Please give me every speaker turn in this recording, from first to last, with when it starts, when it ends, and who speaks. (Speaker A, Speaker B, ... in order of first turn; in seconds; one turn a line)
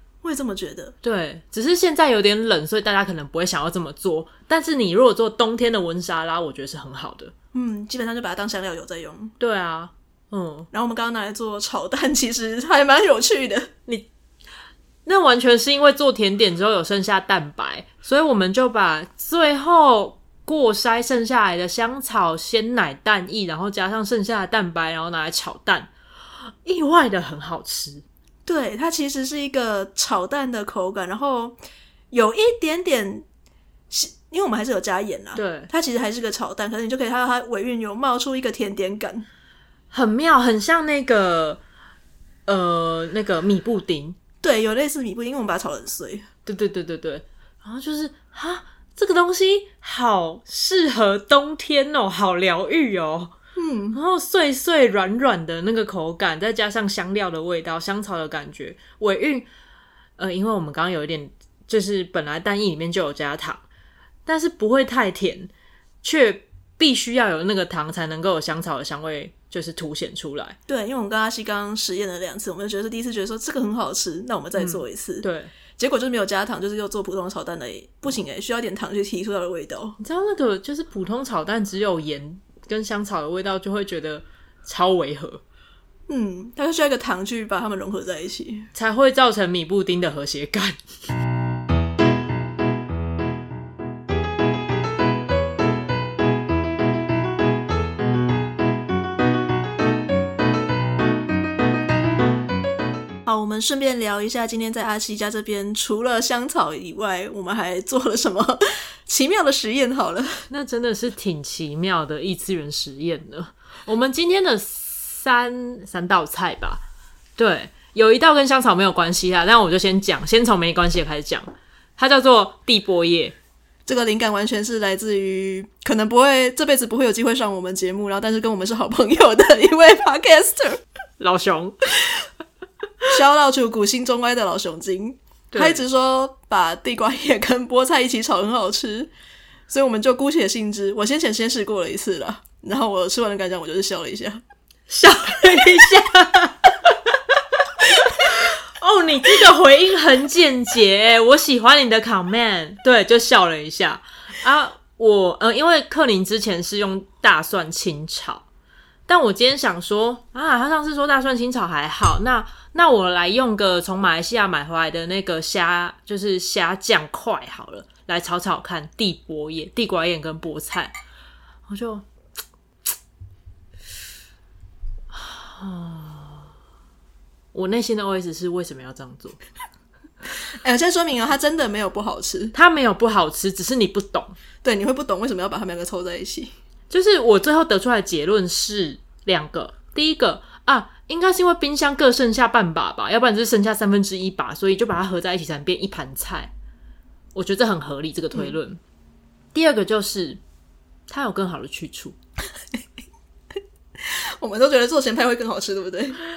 Speaker A: 0.2-0.9
Speaker B: 1.0-7.3
Speaker A: 7.5-9.3
Speaker B: 9.4-10.7
Speaker A: 10.7-13.7
Speaker B: 15.1-28.0
Speaker A: 28.4-31.6
Speaker A: 32.1-33.2
Speaker A: 33.9-39.2
Speaker B: 35.3-35.7
Speaker B: 39.9-41.6
Speaker B: 42.5-44.2
Speaker A: 44.4-46.3
Speaker B: 46.5-53.3
Speaker A: 53.5-54.0
Speaker B: 53.9-59.5
Speaker B: 60.2-63.6
Speaker B: 64.2-65.5
Speaker B: 66.0-70.6
Speaker A: 70.7-75.2
Speaker B: 74.5-75.5
Speaker A: 75.8-80.0
Speaker B: 80.0-85.4
Speaker A: 86.1-88.7
Speaker B: 88.7-90.8
Speaker A: 103.2-110.5
Speaker B: 110.5-116.8
Speaker B: 117.4-123.3
Speaker A: 123.8-130.8
Speaker B: 131.2-131.8
Speaker A: 133.1-139.1
Speaker B: 135.5-135.8
Speaker A: 139.7-144.4
Speaker B: 144.9-146.9
Speaker B: 147.8-158.4
Speaker B: 159.1-170.9
Speaker B: 171.7-172.1
Speaker B: 175.1-176.5
Speaker B: 177.5-179.4
Speaker A: 180.5-182.5
Speaker B: 182.5-184.3
Speaker A: 184.6-186.5
Speaker B: 186.9-196.5
Speaker B: 197.3-198.8
Speaker B: 199.5-200.4
Speaker B: 201.1-202.2
Speaker A: 204.0-206.2